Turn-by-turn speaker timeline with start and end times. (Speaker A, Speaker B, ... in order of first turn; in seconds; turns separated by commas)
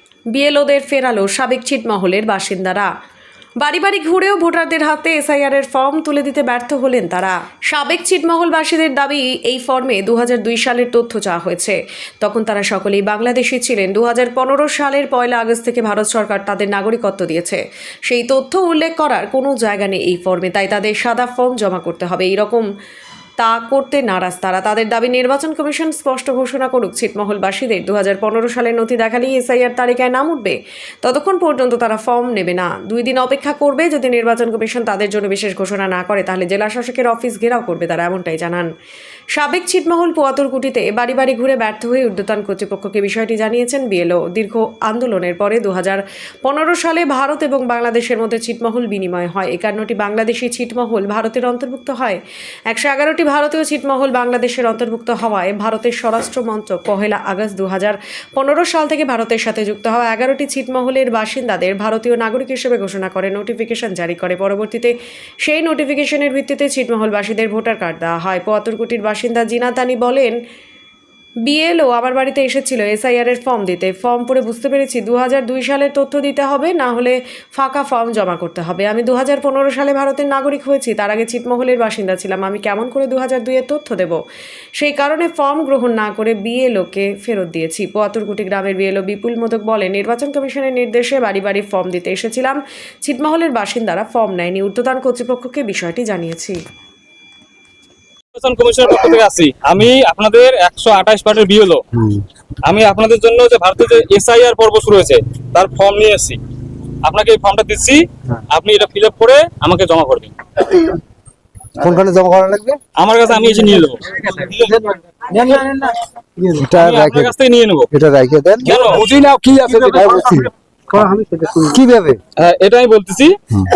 Speaker A: 0.3-2.9, Speaker A: 3.6-22.7, Speaker A: 23.4-38.7, Speaker A: 39.4-70.3, Speaker A: 71.5-84.2, Speaker A: 84.8-96.6, Speaker B: 98.3-101.8, Speaker B: 102.7-106.4, Speaker B: 107.0-110.3, Speaker C: 111.8-112.8, Speaker B: 113.0-114.7, Speaker C: 116.5-117.3, Speaker B: 116.7-117.9, Speaker C: 117.9-118.8, Speaker B: 118.6-119.3, Speaker C: 119.5-122.2, Speaker B: 122.4-123.3